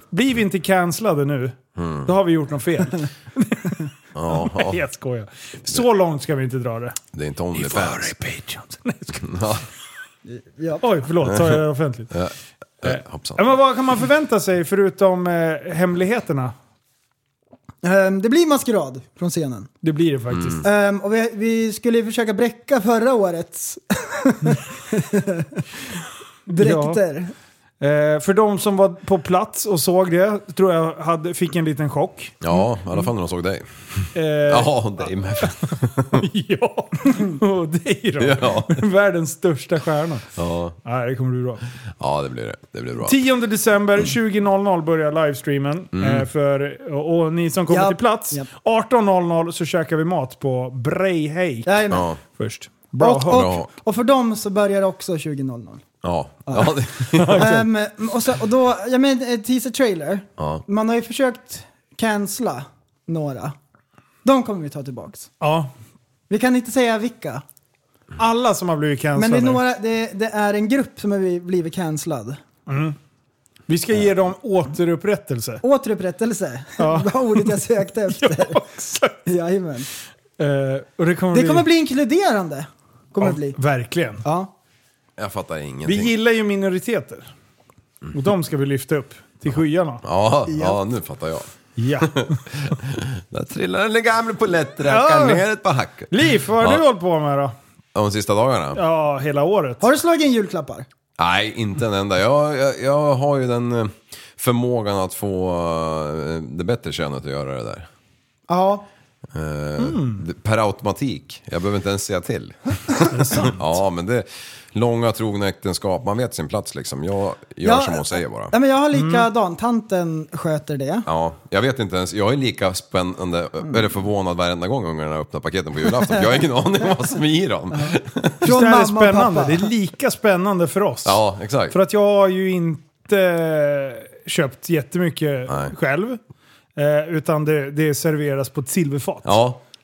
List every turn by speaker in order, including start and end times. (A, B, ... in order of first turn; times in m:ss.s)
0:00.1-0:07.0 A
0:01.8-0:02.1 B
0:04.1-0:04.8 B
0:07.1-0:08.2 B
0:07.5-0:09.4 A
0:09.2-0:09.6 B
0:10.2-0:10.8 C
0:10.8-0:12.1 A
0:11.2-0:13.6 B
0:12.8-0:16.5 A
0:17.8-0:19.7 C
0:19.8-0:20.6 A
0:20.3-0:20.6 B
0:20.6-0:25.6 C
0:26.5-0:27.3 C
0:26.5-0:27.0 A
0:27.8-0:32.4 A
0:32.4-0:36.2 B
0:34.1-0:40.3 A
0:38.2-0:38.8 B
0:40.4-0:40.8 B
0:40.8-0:41.6 A
0:42.0-0:43.2 B
0:43.0-0:51.7 A
0:45.9-0:46.3 B
0:47.7-0:48.5 C
0:51.6-0:52.1 C
0:51.9-0:52.2 B
0:52.3-0:53.5 A
0:53.0-0:55.8 C
0:53.2-0:53.7 B
0:56.0-0:57.5 B
0:56.5-0:56.7 C
0:57.2-0:57.7 A
0:57.3-1:03.5 C
1:00.4-1:00.6 B
1:04.2-1:05.3 C
1:05.4-1:05.7 A
1:06.3-1:07.4 C
1:08.2-1:09.6 A
1:09.2-1:12.4 C
1:12.7-1:13.0 A
1:13.7-1:15.6 A
1:15.6-1:18.6 C
1:16.8-1:19.2 A
1:19.2-1:19.9 C
1:20.4-1:21.7 A
1:21.3-1:23.6 C
1:23.2-1:24.2 A
1:24.2-1:24.5 C
1:25.2-1:26.1 B
1:25.8-1:27.3 A
1:28.1-1:30.0 A
1:30.0-1:31.5 B
1:30.5-1:30.8 C
1:31.8-1:32.4 A
1:32.0-1:36.8 B
1:34.8-1:35.4 A
1:36.1-1:37.5 A
1:37.9-1:38.8 B
1:38.7-1:39.8 A
1:39.8-1:40.9 C
1:41.2-1:47.9 B
1:48.5-1:48.8 C
1:49.3-1:58.5 B
1:49.8-1:50.2 A
1:53.1-1:53.6 A
1:57.6-2:01.1 C
1:58.9-1:59.3 A
2:01.1-2:08.4 B
2:07.7-2:09.7 C
2:08.4-2:16.2 A
2:11.0-2:11.8 B
2:15.5-2:15.7 B
2:16.8-2:19.4 A
2:19.2-2:19.6 B